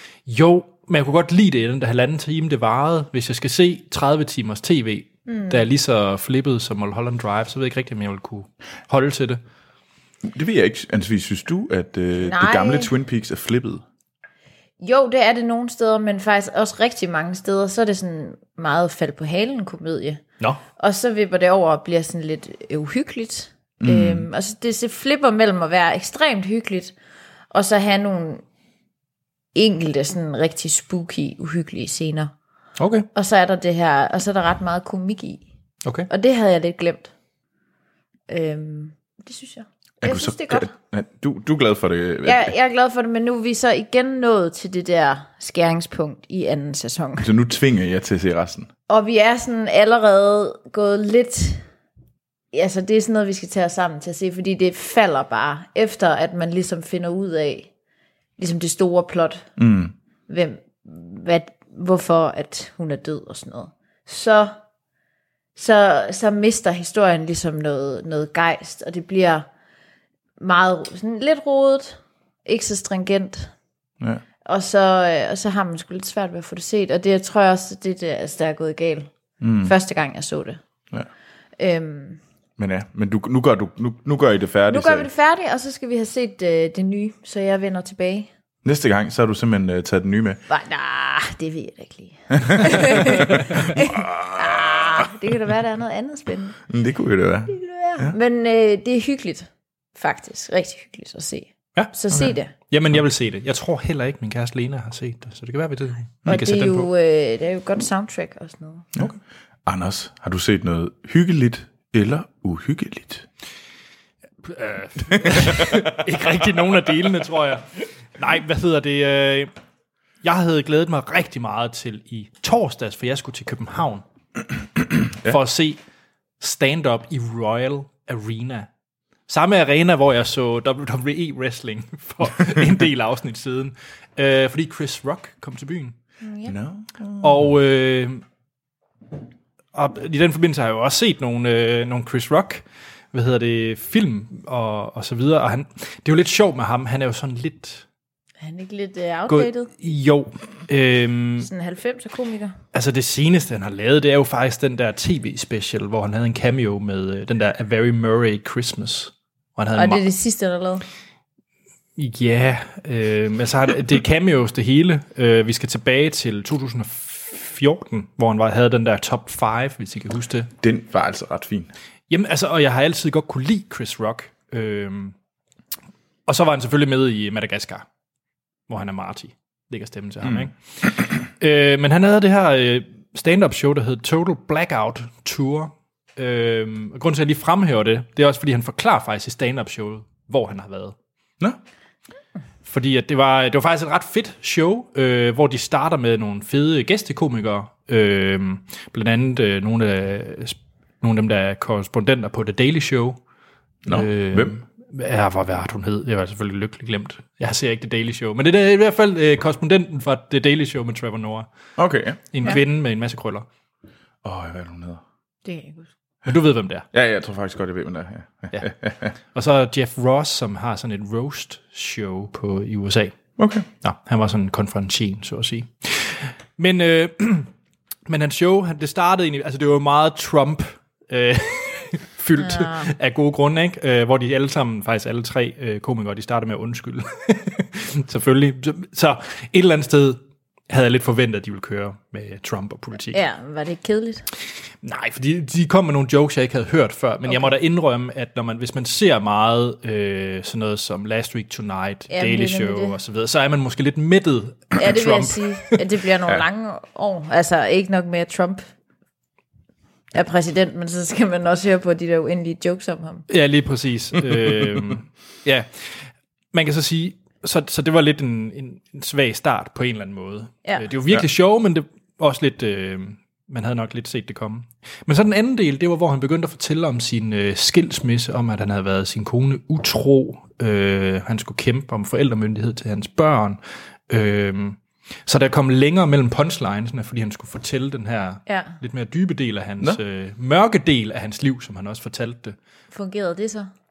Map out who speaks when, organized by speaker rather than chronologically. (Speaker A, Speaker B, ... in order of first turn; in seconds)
Speaker A: 0.3-9.4, 32.8-33.1, 102.6-106.9, 114.4-119.5, 120.2-124.0, 125.2-125.8, 126.4-128.7, 129.3-135.9, 137.2-138.2, 139.7-147.8, 149.3-151.5, 152.7-160.1, 162.0-170.5, 172.1-175.2, 176.3-177.9, 178.7-190.9, 192.7-203.2, 203.8-211.5, 212.3-213.5, 216.3-216.9, 219.3-223.2, 223.8-227.5, 228.1-243.2, 244.8-255.8, 263.3-283.6, 284.1-292.6
Speaker B: 5.3-5.7, 12.2-12.9, 14.8-20.2, 20.8-26.9, 27.5-28.4, 29.6-32.3, 33.1-35.4, 36.1-37.1, 38.3-40.7, 42.2-47.3, 48.9-51.7, 52.5-57.7, 58.4-59.5, 60.3-64.5, 65.6-69.5, 70.4-73.5, 74.5-79.1, 79.6-80.6, 81.6-82.2, 84.7-88.3, 90.5-96.6, 97.5-102.5, 106.3-108.9, 136.2-136.5, 148.4-149.7, 151.4-152.6, 159.8-160.8, 215.4-215.9, 232.4-232.9, 243.1-244.2, 247.3-247.5, 252.1-253.0, 254.8-258.6, 260.1-263.2, 288.5-288.8, 292.9-293.7
Speaker C: 10.2-13.8, 23.8-24.3, 40.0-42.5, 47.2-48.7, 59.6-59.9, 79.4-79.7, 82.6-85.1, 88.6-90.4, 92.4-95.1, 96.7-98.2, 109.7-113.3, 115.1-116.0, 136.5-137.4, 170.6-171.7, 203.9-204.6, 211.8-212.3, 214.2-215.0, 216.9-219.1, 223.4-223.7, 264.4-264.9